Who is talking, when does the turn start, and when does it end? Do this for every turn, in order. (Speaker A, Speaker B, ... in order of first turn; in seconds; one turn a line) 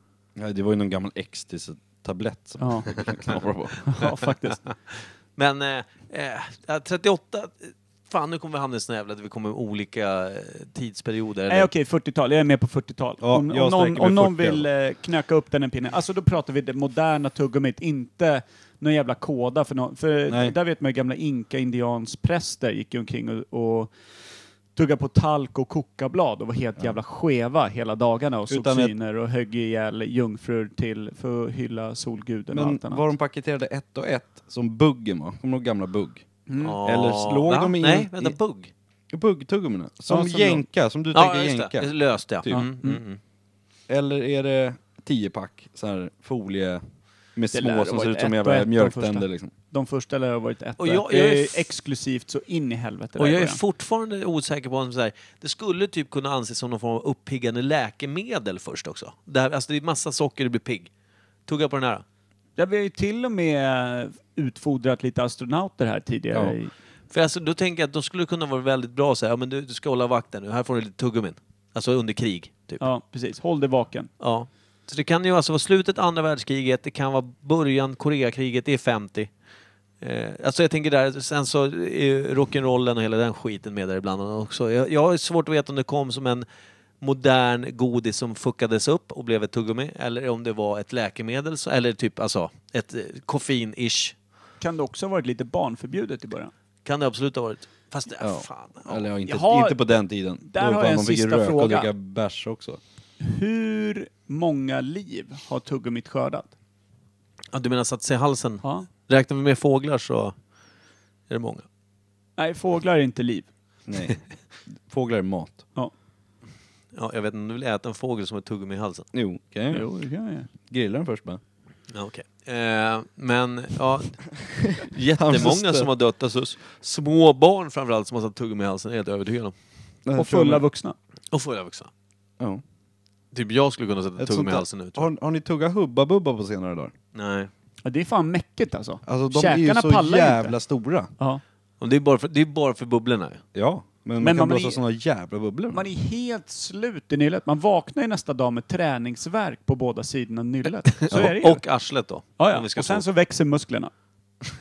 Speaker A: 0.4-3.8
Speaker B: 2.6-2.9
Speaker B: 3.8-4.6
Speaker C: 4.9-11.7
Speaker B: 11.5-23.9
Speaker A: 13.2-14.7
Speaker A: 20.3-20.6
Speaker B: 24.7-33.1
Speaker A: 28.5-28.9
Speaker A: 32.5-36.3
Speaker B: 36.5-36.8
Speaker C: 36.6-38.7
Speaker A: 36.8-38.4
Speaker A: 39.1-42.6
Speaker B: 40.1-40.6
Speaker C: 41.1-43.2
Speaker B: 42.5-43.0
Speaker A: 43.9-46.8
Speaker A: 47.4-49.5
Speaker B: 47.5-53.6
Speaker C: 50.8-51.7
Speaker C: 53.2-60.9
Speaker C: 61.5-62.0
Speaker B: 62.6-66.7
Speaker C: 67.1-72.9
Speaker B: 72.8-74.1
Speaker C: 74.2-79.3
Speaker C: 80.0-86.5
Speaker C: 87.0-94.1
Speaker B: 94.6-96.5
Speaker C: 96.8-99.0
Speaker A: 98.2-102.8
Speaker B: 99.3-99.8
Speaker B: 100.4-101.9
Speaker B: 103.2-106.5
Speaker C: 107.5-110.3
Speaker B: 108.6-108.9
Speaker C: 111.3-111.6
Speaker B: 112.4-113.5
Speaker A: 113.9-115.6
Speaker C: 116.9-119.1
Speaker A: 119.1-119.9
Speaker B: 119.7-120.5
Speaker A: 120.6-121.4
Speaker C: 121.9-129.6
Speaker A: 125.2-125.9
Speaker A: 130.1-130.7
Speaker B: 130.2-130.9
Speaker C: 131.3-131.9
Speaker C: 133.3-135.1
Speaker A: 134.2-136.9
Speaker C: 137.1-137.5
Speaker B: 137.8-140.6
Speaker A: 139.1-141.1
Speaker C: 141.8-143.4
Speaker A: 143.5-145.8
Speaker B: 144.2-144.8
Speaker B: 145.7-151.6
Speaker C: 151.0-153.0
Speaker B: 152.4-153.9